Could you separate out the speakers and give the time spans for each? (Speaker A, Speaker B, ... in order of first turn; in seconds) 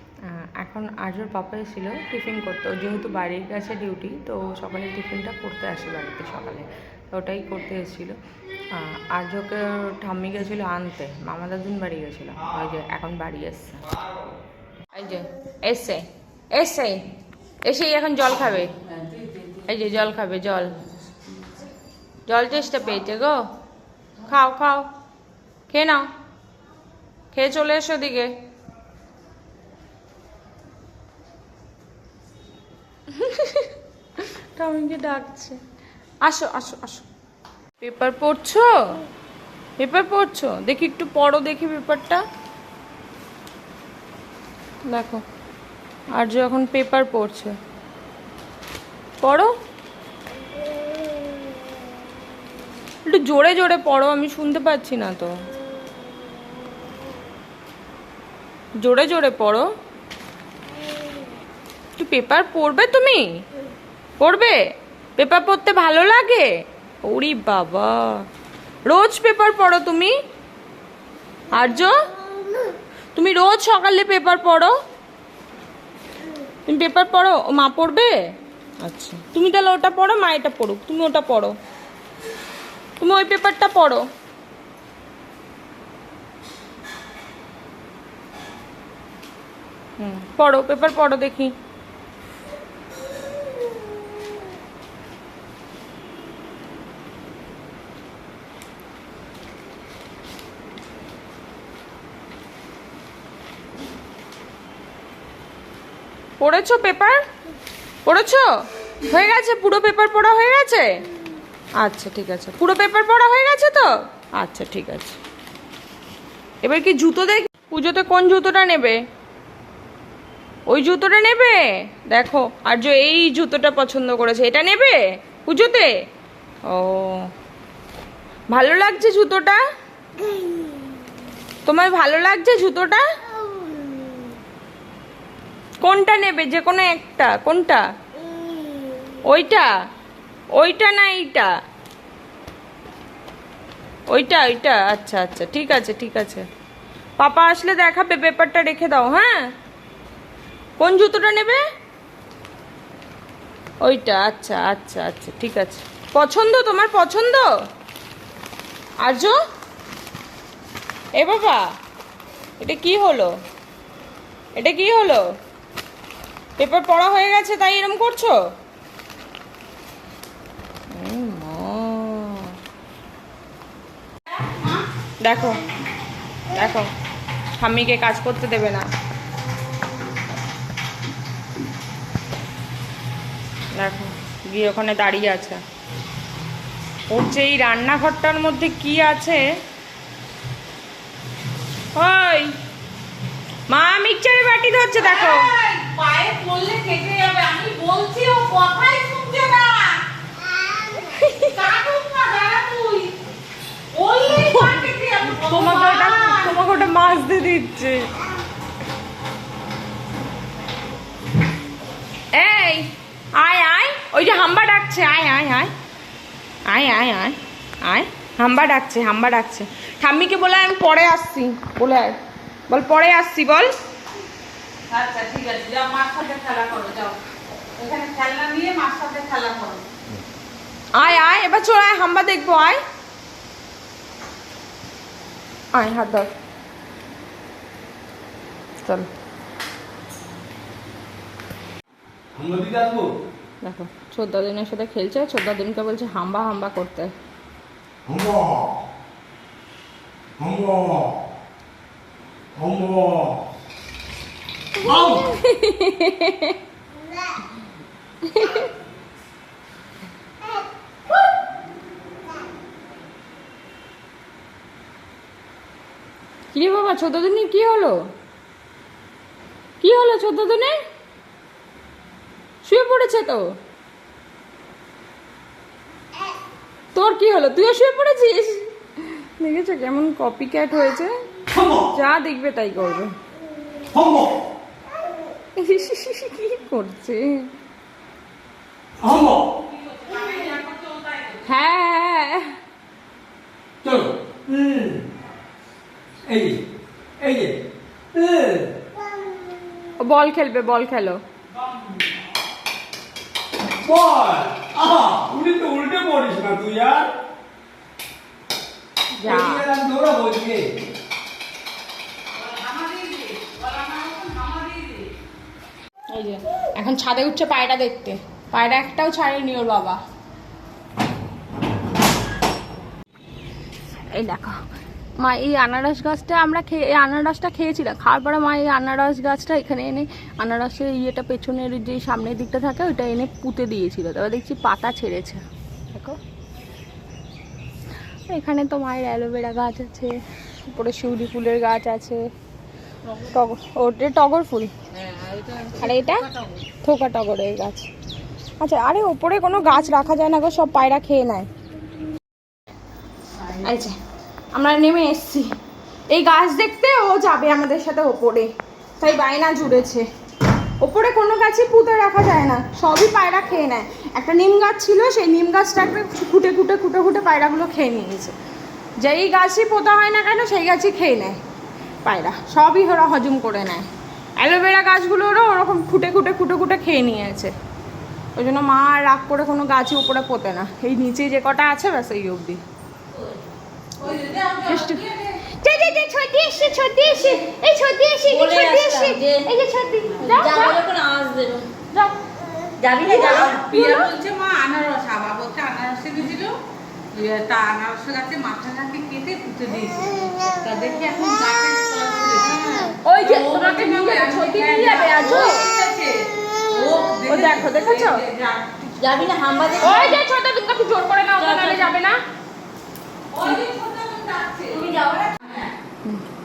Speaker A: 0.3-8.2, 8.7-13.9, 14.9-17.0, 17.6-18.7, 19.6-20.8, 22.3-23.4, 24.2-24.9, 25.7-26.1, 27.3-28.3, 33.1-33.7, 34.5-35.6, 36.2-37.0, 37.8-38.7, 39.8-42.2, 44.9-45.2, 46.2-47.5, 49.2-49.5, 53.1-55.4, 58.8-59.7, 62.0-63.2, 64.2-64.6, 65.2-66.5, 67.0-68.2, 68.9-70.1, 71.5-71.9, 73.2-74.7, 76.7-78.1, 78.8-81.5, 83.0-84.0, 90.0-91.5, 106.4-107.2, 108.0-108.5, 109.1-110.9, 111.8-115.2, 116.6-119.0, 120.7-125.9, 126.7-127.3, 128.5-129.6, 131.7-133.0, 135.8-137.8, 139.3-139.7, 140.6-141.5, 144.1-146.5, 147.2-149.5, 150.8-151.6, 153.8-157.5, 159.0-159.3, 161.2-161.6, 162.6-163.3, 164.6-165.2, 166.6-168.4, 170.9-172.6, 175.2-175.6, 176.5-176.9, 177.6-178.8, 183.8-185.6, 187.1-189.5, 191.9-192.6, 193.7-195.5, 201.0-201.6, 204.4-204.8, 205.4-208.1, 212.3-215.7, 216.7-222.2, 222.7-223.7, 230.9-232.8, 235.7-236.3, 238.8-239.1, 243.6-247.1, 254.8-256.6, 258.3-258.7, 266.5-268.0, 269.8-270.7, 272.6-273.4, 276.9-281.1, 281.9-283.1, 285.6-287.4, 291.4-292.6, 300.0-301.2, 309.2-309.6, 316.1-320.0, 324.1-324.6, 325.2-336.2, 338.3-342.2, 343.2-344.7, 345.7-346.3, 346.8-347.9, 348.6-351.5, 353.5-353.9, 354.5-355.5, 356.1-360.1, 360.8-368.4, 369.0-371.4, 372.0-377.5, 378.4-382.6, 384.7-385.0, 385.6-390.8, 391.9-392.2, 393.1-394.1, 403.0-405.7, 407.3-408.2, 409.8-412.2
Speaker B: 174.5-174.8, 195.0-200.0, 201.5-203.2, 203.9-206.6, 224.9-227.2, 227.8-229.8, 289.7-291.4, 312.4-315.1, 345.1-345.7, 384.0-385.4, 390.2-390.7, 393.1-396.6, 397.1-409.1, 413.3-415.7
Speaker C: 242.3-243.1, 248.1-248.7, 250.4-251.2, 252.6-253.4, 254.9-255.3, 281.5-281.9, 283.9-284.4, 289.0-289.5, 293.8-295.0, 296.2-296.6, 297.2-297.6, 298.1-298.7, 303.8-307.1, 309.2-310.7
Speaker D: 388.2-389.5, 390.2-391.7, 392.8-393.7, 409.0-410.2, 411.4-411.9, 414.8-415.4